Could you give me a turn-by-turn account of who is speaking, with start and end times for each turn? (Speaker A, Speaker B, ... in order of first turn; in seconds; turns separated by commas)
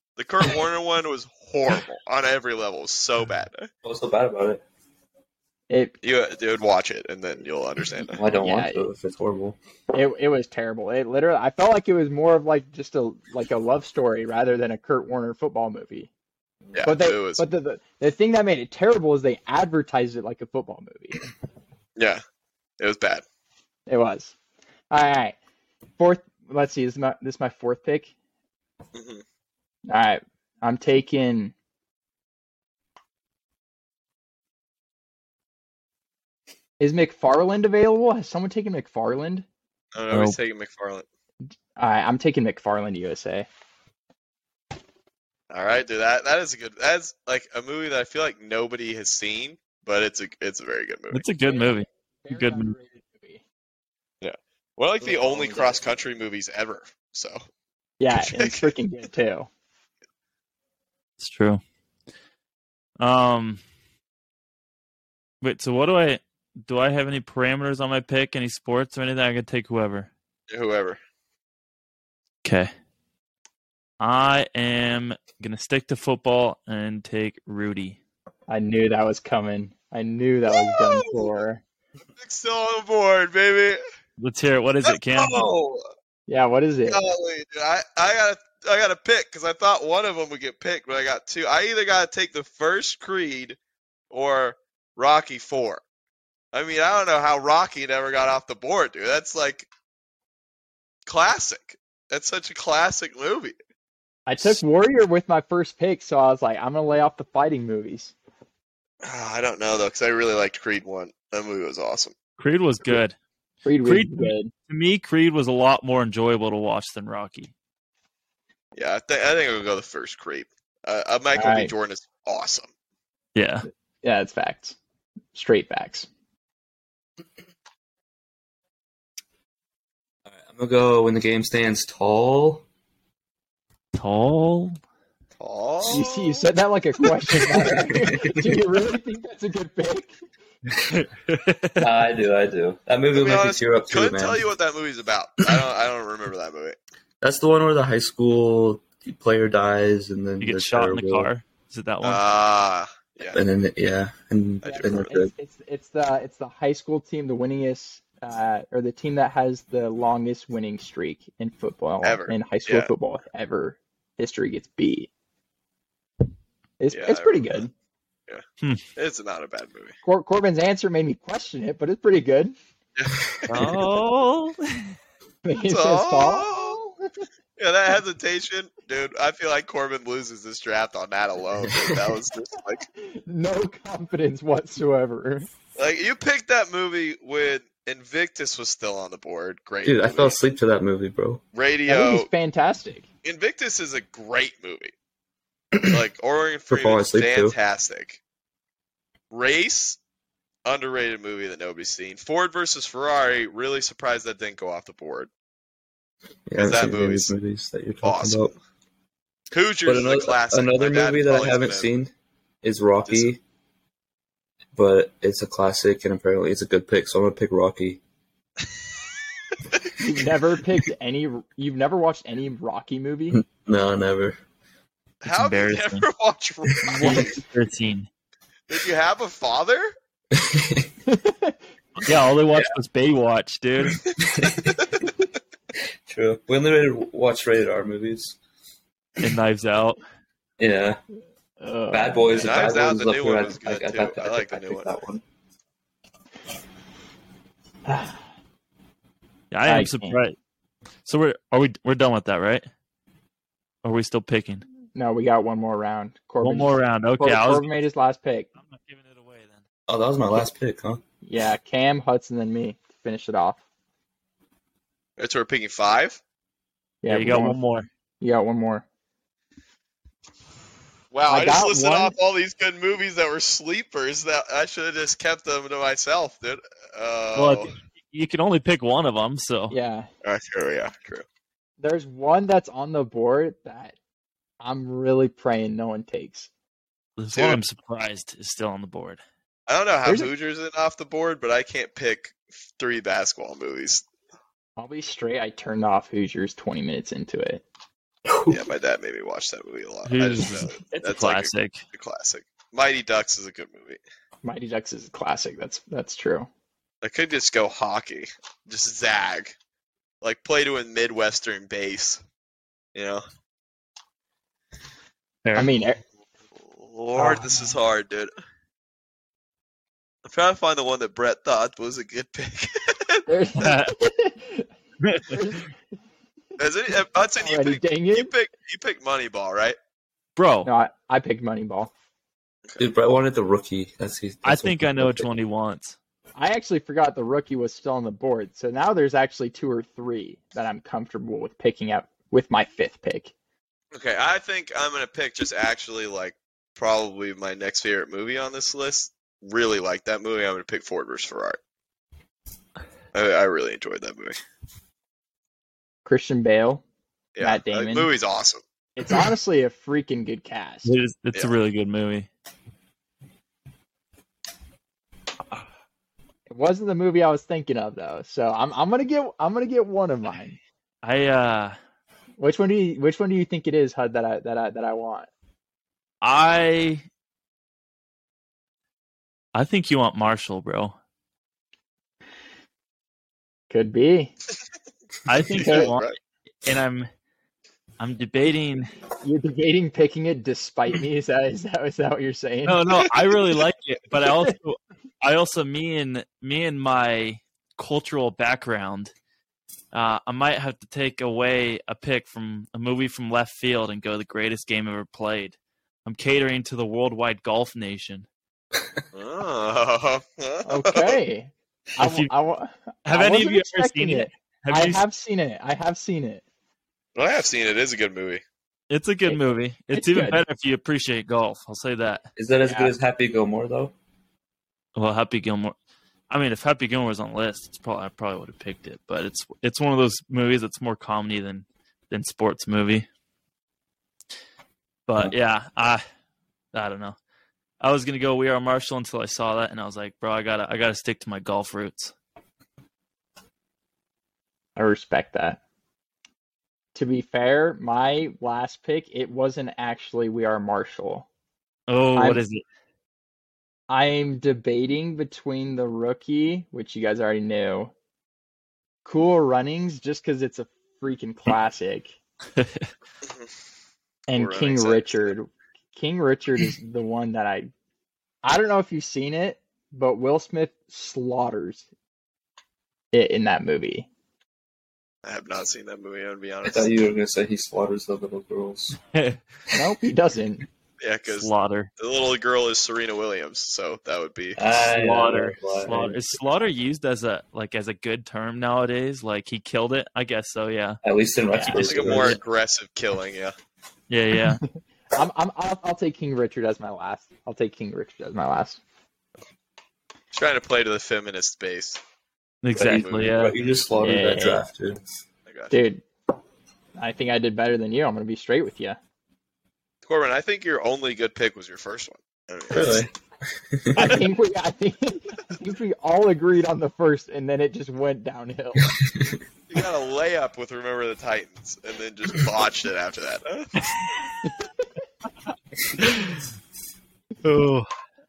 Speaker A: 0.2-3.6, Speaker B: 3.8-4.6, Speaker C: 5.7-5.9, Speaker A: 6.0-8.2, Speaker B: 8.0-9.6, Speaker C: 8.4-8.9, Speaker C: 9.9-16.1, Speaker A: 16.7-17.4, Speaker C: 16.8-21.2, Speaker A: 22.8-23.2, Speaker C: 23.9-24.3, Speaker C: 24.9-25.4, Speaker C: 26.0-28.1, Speaker A: 28.9-29.2, Speaker C: 29.9-31.5, Speaker C: 36.8-39.5, Speaker A: 39.9-41.0, Speaker D: 40.1-40.4, Speaker C: 41.8-43.5, Speaker A: 45.5-51.2, Speaker D: 51.1-52.7, Speaker C: 51.4-53.4, Speaker A: 54.2-57.4, Speaker B: 55.0-55.9, Speaker C: 58.0-59.5, Speaker A: 58.1-58.7, Speaker D: 61.2-61.6, Speaker D: 63.0-63.6, Speaker D: 65.4-70.1, Speaker A: 70.5-71.0, Speaker D: 72.4-72.7, Speaker D: 74.0-78.0, Speaker C: 78.5-81.6, Speaker A: 80.5-81.3, Speaker A: 82.1-83.8, Speaker D: 84.2-85.4, Speaker A: 84.8-85.8, Speaker C: 86.3-87.0, Speaker A: 86.9-93.6, Speaker A: 94.1-95.8, Speaker A: 96.5-99.7, Speaker A: 101.1-103.5, Speaker C: 104.2-108.1, Speaker A: 109.0-112.1, Speaker D: 112.4-113.2, Speaker C: 113.6-114.5, Speaker D: 113.8-117.5, Speaker A: 118.7-122.7, Speaker C: 121.3-121.7, Speaker D: 123.3-123.7, Speaker C: 124.0-124.8, Speaker C: 125.3-126.1, Speaker B: 130.2-132.6, Speaker D: 133.9-134.8, Speaker A: 135.4-136.4, Speaker C: 135.8-140.1, Speaker B: 137.7-138.5, Speaker D: 140.8-141.9, Speaker B: 141.8-144.4, Speaker A: 143.1-146.8, Speaker B: 147.2-151.3, Speaker D: 150.4-152.2, Speaker A: 152.0-153.4, Speaker B: 153.2-155.3, Speaker A: 154.6-155.1, Speaker C: 154.6-165.1, Speaker A: 162.0-162.9, Speaker C: 166.8-167.7, Speaker A: 166.9-167.6, Speaker A: 168.9-169.9, Speaker C: 170.0-172.6, Speaker A: 172.9-173.7, Speaker D: 173.5-174.9, Speaker C: 175.4-176.9, Speaker A: 175.7-176.8, Speaker A: 177.6-182.8, Speaker C: 183.0-185.5, Speaker A: 185.8-190.4, Speaker B: 189.8-191.4, Speaker A: 191.5-192.3, Speaker C: 191.8-193.1, Speaker A: 193.2-194.9, Speaker A: 195.9-198.2, Speaker B: 196.7-197.5, Speaker A: 199.3-200.0, Speaker A: 200.7-205.3, Speaker B: 206.5-208.5, Speaker A: 206.6-207.4, Speaker A: 208.0-208.5, Speaker A: 209.5-211.9, Speaker B: 209.8-212.1, Speaker B: 212.6-213.4, Speaker A: 213.0-213.3, Speaker B: 214.8-218.0, Speaker C: 220.0-223.4, Speaker B: 223.4-224.4, Speaker A: 225.2-227.2, Speaker D: 225.3-226.1, Speaker B: 226.8-227.3, Speaker C: 226.9-227.3, Speaker D: 227.0-228.1, Speaker A: 228.7-229.9, Speaker B: 230.3-230.9, Speaker C: 231.1-231.6, Speaker D: 232.0-234.0, Speaker B: 234.2-234.7, Speaker A: 234.7-235.1, Speaker B: 236.1-238.4, Speaker D: 239.2-240.0, Speaker B: 240.6-241.0, Speaker C: 241.6-242.7, Speaker B: 241.9-245.2, Speaker A: 242.4-245.0, Speaker C: 247.8-248.2, Speaker D: 249.5-250.3, Speaker C: 249.6-250.2, Speaker D: 251.0-252.7, Speaker D: 253.8-254.6, Speaker C: 254.9-258.5, Speaker D: 256.4-257.8, Speaker D: 258.6-259.6, Speaker B: 259.9-261.0, Speaker C: 261.2-263.6, Speaker A: 265.2-266.2, Speaker C: 267.0-267.6, Speaker D: 267.1-267.9, Speaker C: 268.2-268.8, Speaker A: 271.1-277.7, Speaker C: 271.2-272.1, Speaker D: 277.3-279.7, Speaker C: 279.7-280.1, Speaker A: 280.2-281.2, Speaker C: 281.8-283.9, Speaker C: 284.6-286.5, Speaker D: 287.2-289.2, Speaker A: 287.3-287.6, Speaker A: 289.7-294.0, Speaker C: 290.0-290.3, Speaker C: 294.8-297.6, Speaker B: 298.3-298.6, Speaker A: 298.5-304.0, Speaker D: 300.1-301.8, Speaker C: 304.4-306.5, Speaker A: 307.0-309.5, Speaker A: 310.2-312.2, Speaker A: 312.9-313.2, Speaker D: 315.4-315.7, Speaker C: 315.6-316.0, Speaker A: 316.6-318.3, Speaker C: 317.1-317.8, Speaker A: 320.2-323.7, Speaker C: 323.3-324.7, Speaker D: 323.6-323.9, Speaker D: 325.0-325.4, Speaker C: 325.2-325.7, Speaker A: 326.6-329.8, Speaker C: 327.3-328.3, Speaker D: 330.4-330.7, Speaker C: 330.6-331.9, Speaker B: 332.8-335.3, Speaker D: 334.4-335.9, Speaker C: 336.3-343.3, Speaker A: 343.9-351.6, Speaker A: 353.1-354.4, Speaker C: 356.0-356.8, Speaker A: 357.4-358.6, Speaker C: 357.4-358.1, Speaker C: 358.9-360.9, Speaker D: 360.8-362.3, Speaker C: 366.5-370.6, Speaker D: 371.0-371.8, Speaker C: 372.4-375.3, Speaker D: 376.2-377.0, Speaker D: 379.5-380.9, Speaker C: 383.7-384.3, Speaker D: 385.2-387.1, Speaker A: 385.6-386.1, Speaker C: 385.6-385.9, Speaker D: 388.0-388.9, Speaker C: 389.2-392.8, Speaker D: 392.6-399.1, Speaker D: 399.9-408.2, Speaker A: 409.1-411.2, Speaker C: 410.6-416.4, Speaker D: 412.0-412.3, Speaker D: 413.1-415.0, Speaker A: 417.1-418.4, Speaker D: 418.9-422.2, Speaker C: 419.9-420.4, Speaker B: 422.4-423.9, Speaker C: 422.6-422.9, Speaker D: 424.9-425.7, Speaker D: 426.3-433.1, Speaker D: 435.1-436.0, Speaker D: 436.7-437.2, Speaker D: 437.8-442.1, Speaker C: 444.8-445.6, Speaker C: 446.9-451.3, Speaker D: 451.9-452.6, Speaker C: 452.1-452.4, Speaker C: 453.9-457.9, Speaker C: 459.0-462.1, Speaker D: 462.6-462.9, Speaker A: 463.2-463.5, Speaker C: 464.3-467.7, Speaker A: 464.3-465.3, Speaker C: 468.4-471.9, Speaker C: 473.1-474.1, Speaker A: 475.2-476.9, Speaker B: 476.6-479.0, Speaker D: 479.1-479.4, Speaker C: 479.7-480.6, Speaker A: 481.0-484.6, Speaker D: 481.4-481.9, Speaker B: 484.6-486.3, Speaker D: 484.8-491.0, Speaker B: 491.0-492.4, Speaker C: 491.5-491.8, Speaker D: 491.6-492.4, Speaker A: 491.8-493.5, Speaker D: 494.1-494.6, Speaker C: 495.1-498.8, Speaker A: 500.3-502.0, Speaker D: 502.6-504.4, Speaker B: 502.8-505.0, Speaker A: 502.8-503.3, Speaker C: 504.0-504.6, Speaker A: 505.5-505.7, Speaker C: 505.7-506.0, Speaker C: 507.0-509.0, Speaker A: 510.0-513.0, Speaker B: 512.7-513.1, Speaker B: 513.6-514.2, Speaker C: 513.9-518.9, Speaker B: 519.0-519.3, Speaker A: 519.7-523.8, Speaker D: 526.0-526.4, Speaker D: 527.4-527.9